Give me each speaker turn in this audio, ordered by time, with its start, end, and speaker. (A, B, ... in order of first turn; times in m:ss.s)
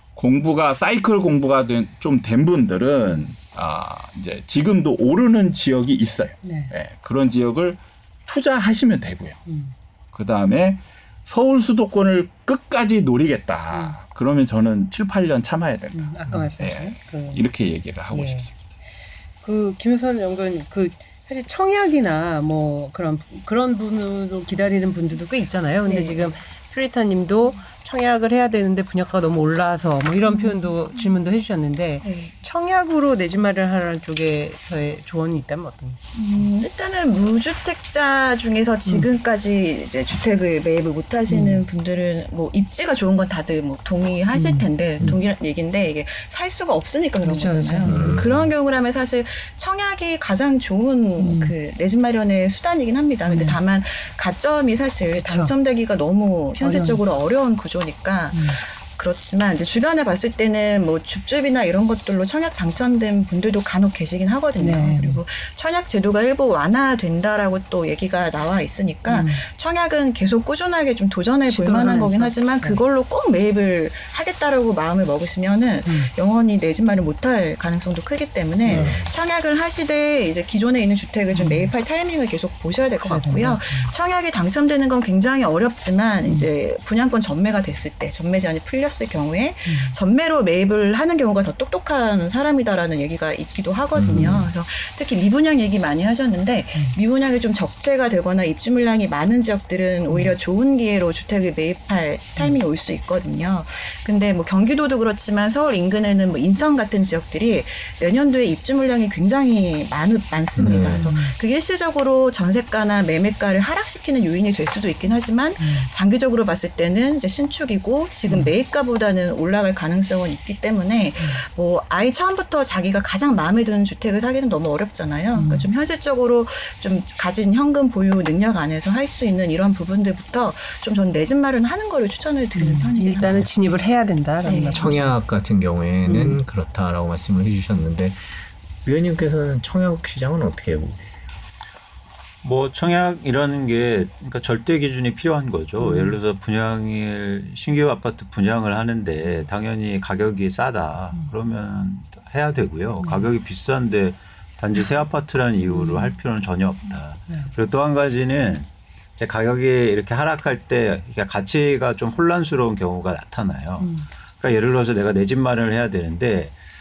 0:00.2-0:09.4 A
0:06.4-0:06.7 B
0:09.5-0:09.7 B
0:10.1-0:18.5 A
0:15.9-0:17.4 B
0:18.1-0:18.5 B
0:19.4-0:36.0 B
0:25.9-0:26.2 C
0:32.0-0:32.3 C
0:36.1-2:13.5 C
0:41.3-0:41.6 B
0:44.3-0:44.7 B
0:47.2-0:48.2 B
0:47.9-0:48.5 D
0:51.2-0:51.5 B
0:53.3-0:53.6 B
0:55.2-0:55.5 B
0:56.6-0:57.0 B
0:58.3-0:58.6 B
1:04.6-1:05.2 B
1:09.1-1:09.4 B
1:11.5-1:12.8 B
1:15.9-1:16.1 B
1:18.7-1:19.0 B
1:18.7-1:19.1 D
1:21.3-1:21.7 B
1:23.0-1:23.9 B
1:29.7-1:30.0 B
1:34.0-1:34.5 D
1:34.1-1:34.4 B
1:50.6-1:51.1 D
1:50.7-1:51.3 B
1:55.6-1:55.9 B
2:05.4-2:05.7 B
2:12.6-2:15.1 B
2:14.4-2:14.9 C
2:14.7-2:18.3 D
2:16.1-2:16.4 B
2:18.8-2:21.3 D
2:22.4-2:46.5 E
2:25.8-2:26.2 B
2:35.8-2:36.1 B
2:43.8-2:44.0 B